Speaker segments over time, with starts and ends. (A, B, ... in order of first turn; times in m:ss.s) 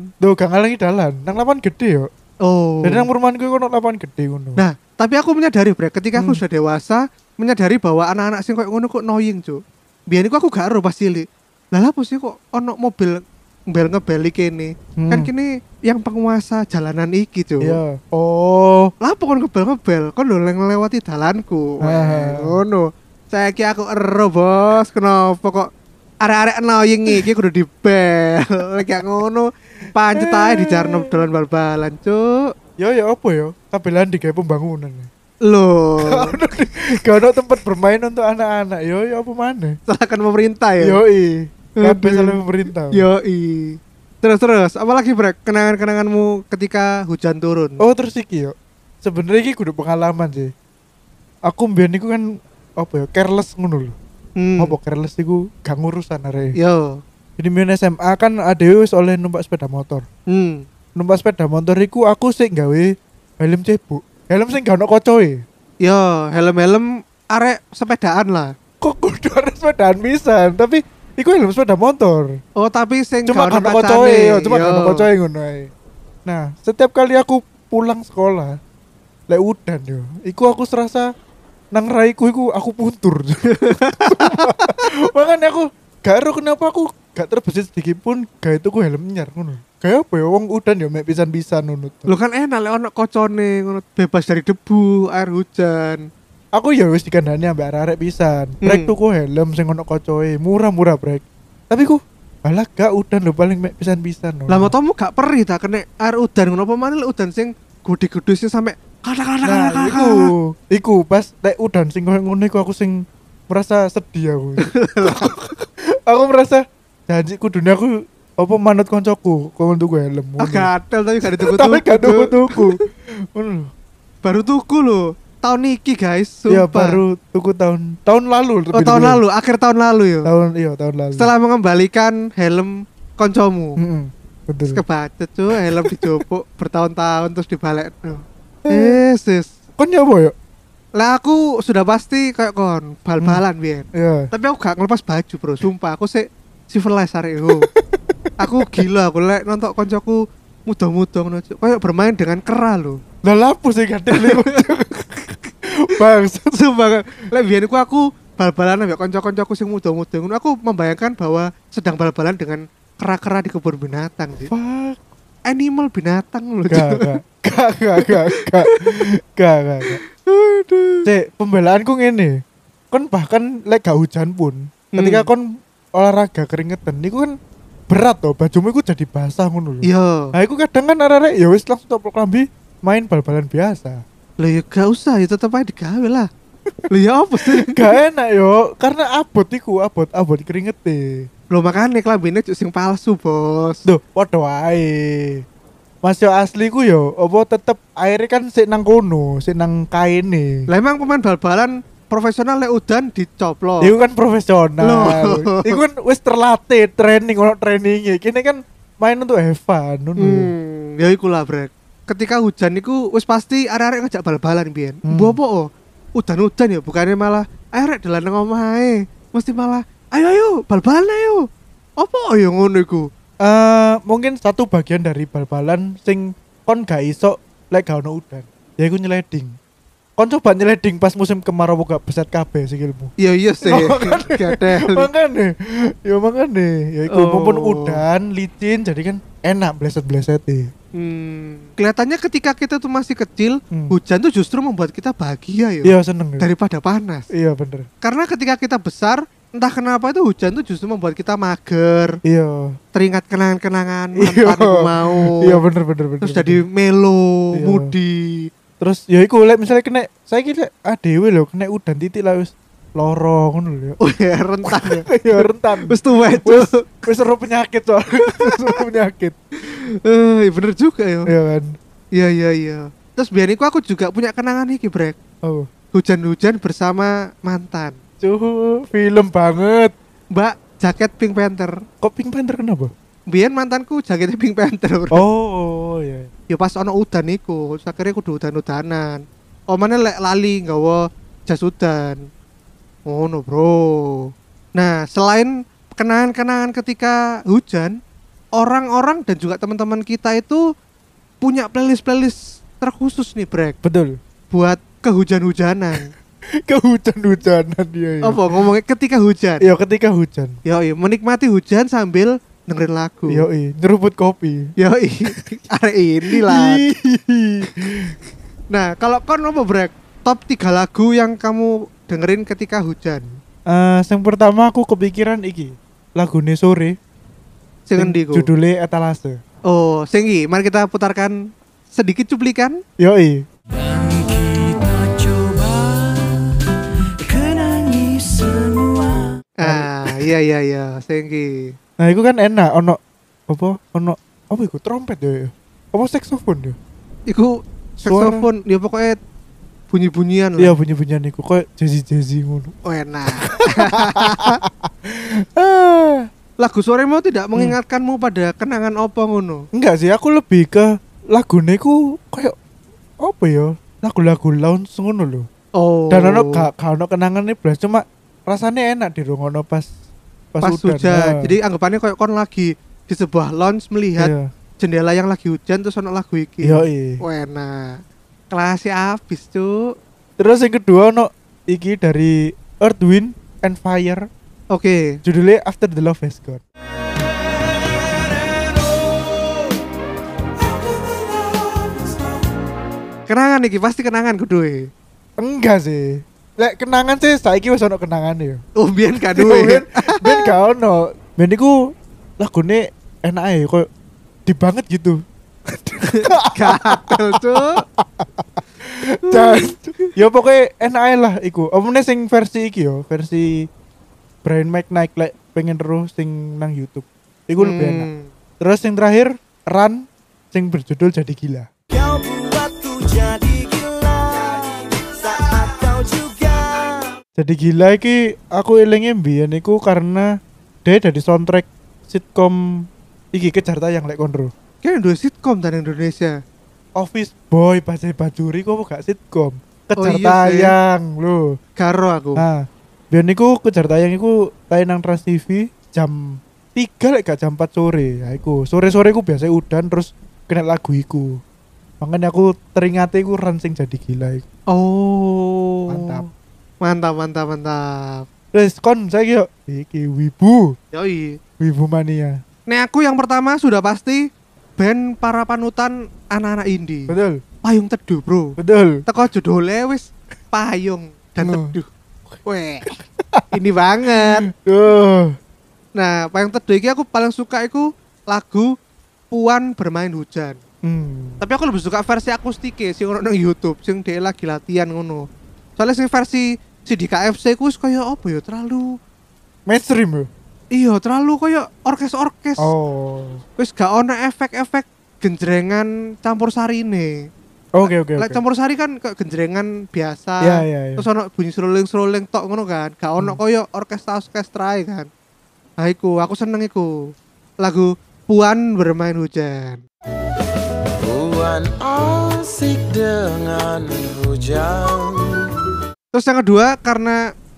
0:00.2-0:02.1 A
0:02.4-0:03.1 B
0:02.8-0:04.6 A
0:04.6-0:17.8 B
0:06.2-0:06.4 A
0:15.0-0:15.3 A
0:17.6-0:18.9 A
0:19.0-0:25.7 B
0:21.8-0:22.6 A
0:26.2-0:32.5 B
0:30.2-0:31.1 A
0:32.8-0:35.1 A
0:35.4-0:36.4 B
0:36.0-0:39.8 A
0:39.9-0:41.0 B
0:40.8-0:43.0 A
0:41.8-0:42.4 B
0:42.9-0:47.8 B
0:47.8-0:50.5 A
0:51.5-0:54.0 A
0:54.4-0:54.7 B
0:54.6-0:56.5 A
0:56.6-0:57.0 B
0:57.4-1:00.0 A
1:00.3-1:00.6 B
1:01.0-1:05.4 A
1:05.8-1:08.5 B
1:08.8-1:12.4 A
1:12.6-1:15.0 B
1:13.2-1:15.7 A
1:16.2-1:18.6 A
1:19.3-1:21.1 A
1:21.7-1:32.1 A
1:23.5-1:25.0 B
1:32.1-1:36.0 B
1:36.5-1:44.7 A
1:38.6-1:38.9 B
1:44.5-1:50.3 B
1:49.4-2:00.7 A
1:54.6-1:55.4 B
2:00.4-2:02.7 B
2:01.4-2:03.7 A
2:04.2-2:07.0 B
2:06.5-2:09.2 A
2:08.7-2:10.3 B
2:10.2-2:11.3 A
2:11.1-2:13.8 B
2:13.8-2:14.8 A
2:14.7-2:19.5 B
2:15.7-2:16.2 A
2:18.7-2:19.0 A
2:19.8-2:20.3 A
2:21.0-2:27.7 B
2:23.9-2:24.3 A
2:27.5-2:28.8 A
2:28.4-2:33.0 B
2:33.2-2:36.7 A
2:34.1-2:34.7 B
2:36.5-2:44.5 B
2:44.5-2:45.0 A
2:45.5-2:47.1 B
2:46.7-2:50.0 A
2:48.0-2:48.8 B
2:49.9-2:51.1 B
2:51.0-2:52.4 A
2:52.9-2:57.3 A
2:55.0-2:55.3 B
2:57.9-3:04.0 A
2:59.8-3:00.3 B
3:04.4-3:06.3 B
3:06.9-3:07.9 B
3:07.4-3:11.3 A
3:11.5-3:13.8 B
3:13.8-3:15.4 A
3:16.0-3:20.6 A
3:20.7-3:23.9 B
3:23.8-3:30.5 A
3:24.8-3:25.8 B
3:30.2-3:41.4 B
3:35.1-3:35.4 A
3:42.0-3:43.1 B
3:43.4-3:49.6 A
3:50.2-3:53.1 A
3:53.2-3:55.1 B
3:53.7-4:00.7 A
3:57.1-3:58.0 B
4:01.0-4:07.3 B
4:05.8-4:06.4 A
4:07.3-4:07.9 A
4:08.0-4:12.1 B
4:12.2-4:12.7 A
4:12.9-4:15.6 B
4:14.2-4:16.6 A
4:16.2-4:18.5 B
4:17.5-4:17.9 A
4:18.8-4:24.0 A
4:24.0-4:26.9 B
4:24.6-4:29.4 A
4:28.4-4:28.8 B
4:29.6-4:31.3 B
4:31.3-4:31.7 A
4:32.2-4:35.2 B
4:35.4-4:35.7 A
4:35.9-4:38.0 B
4:38.2-4:39.9 A
4:40.3-4:41.7 B
4:42.0-4:42.9 A
4:43.3-4:45.2 B
4:45.1-4:46.3 A
4:46.5-4:52.2 B
4:53.1-4:58.0 B
4:58.6-5:00.6 B
5:01.4-5:03.8 B
5:03.8-5:04.2 A
5:04.5-5:06.1 B
5:06.6-5:08.4 A
5:08.2-5:09.7 B
5:09.6-5:10.6 A
5:10.6-5:13.4 B
5:13.3-5:14.7 A
5:14.8-5:16.8 B
5:16.3-5:18.1 A
5:18.7-5:23.4 B
5:23.7-5:27.0 A
5:27.9-5:28.5 B
5:28.0-5:29.4 A
5:29.7-5:31.4 B
5:31.9-5:32.8 B
5:33.0-5:33.4 A
5:33.8-5:36.6 C
5:37.2-5:39.4 C
5:39.6-5:41.7 B
5:39.6-5:39.9 A
5:42.0-5:46.8 A
5:47.3-5:49.2 B
5:48.1-5:48.4 A
5:49.9-5:50.8 B
5:50.6-5:52.7 A
5:52.8-5:54.6 B
5:53.5-5:56.3 A
5:56.6-5:59.6 B
5:59.7-6:02.5 A
6:03.2-6:05.5 A
6:05.8-6:06.6 B
6:06.1-6:09.9 A
6:10.5-6:11.5 A
6:10.6-6:18.0 B
6:14.2-6:14.5 A
6:16.6-6:17.2 A
6:18.5-6:19.8 B
6:20.4-6:24.2 A
6:24.7-6:25.2 B
6:25.2-6:26.6 A
6:28.5-6:28.9 C
6:33.3-6:34.9 B
6:35.4-6:38.6 A
6:38.8-6:40.5 B
6:39.3-6:41.7 A
6:42.4-6:43.8 A
6:44.4-6:53.7 A
6:46.0-6:47.8 B
6:49.3-6:50.1 B
6:54.4-6:58.1 A
6:57.6-6:58.3 B
6:58.6-7:01.7 A
7:01.9-7:07.1 C
7:07.4-7:10.3 A
7:10.8-7:14.5 A
7:14.8-7:16.4 B
7:17.0-7:21.5 A
7:20.0-7:20.7 B
7:21.8-7:22.4 B
7:22.4-7:31.4 A
7:32.0-7:34.4 A
7:34.7-7:36.2 B
7:35.9-7:36.2 A
7:36.8-7:38.2 B
7:38.5-7:40.8 A
7:40.9-7:41.4 B
7:41.6-7:42.4 A
7:42.7-7:44.2 B
7:44.8-7:51.9 B
7:47.1-7:47.4 A
7:48.6-7:49.0 A
7:51.4-7:51.7 A
7:52.4-7:52.9 B
7:52.8-7:53.5 A
7:53.5-7:54.4 B
7:54.1-7:55.4 A
7:56.0-7:58.7 B
7:59.3-8:00.6 B
8:00.8-8:01.4 A
8:01.4-8:05.2 B
8:05.8-8:09.0 B
8:09.7-8:10.3 A
8:10.7-8:12.7 B
8:12.6-8:13.4 A
8:13.6-8:17.3 B
8:17.8-8:18.4 A
8:17.8-8:25.1 B
8:20.4-8:21.0 A
8:25.8-8:27.0 B
8:27.6-8:29.8 B
8:31.0-8:35.4 C
8:36.1-8:37.2 B